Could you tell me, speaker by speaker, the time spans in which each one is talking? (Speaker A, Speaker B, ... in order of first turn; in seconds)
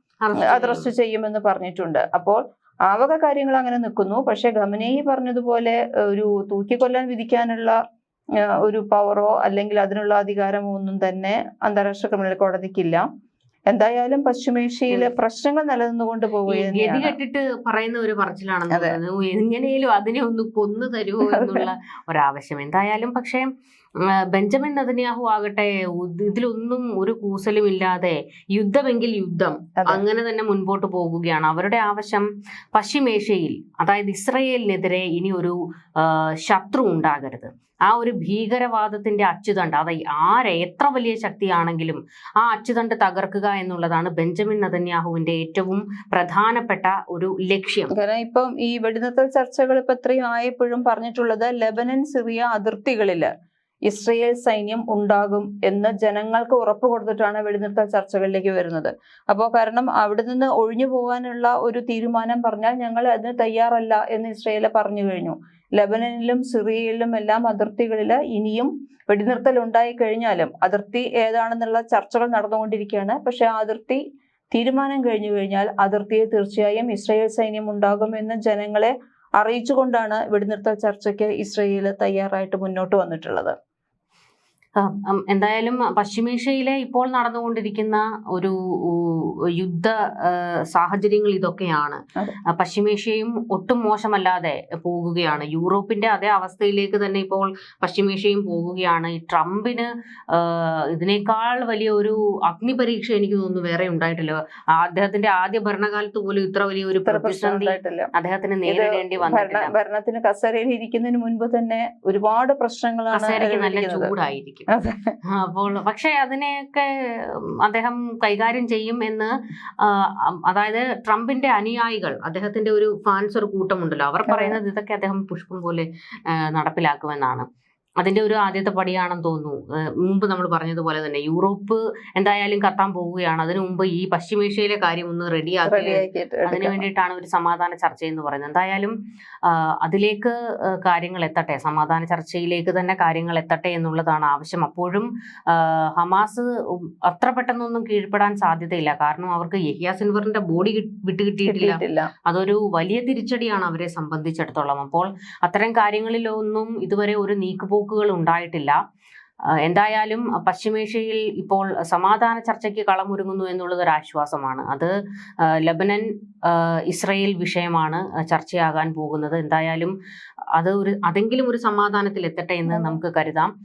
Speaker A: 0.2-0.9, 16.5-23.5, 24.0-47.9, 84.8-92.0, 92.5-109.7, 113.1-114.7, 115.2-127.5, 128.0-158.8, 159.6-164.9, 165.5-169.9, 170.5-173.5
Speaker B: 0.4-7.8, 8.4-13.0, 13.7-17.1, 18.7-19.0, 21.3-21.6, 29.8-30.0, 48.0-53.3, 53.9-74.0, 74.5-83.5, 107.0-108.1, 108.7-114.1, 114.7-115.1, 124.3-124.6, 135.7-136.8, 151.5-152.1, 172.7-173.0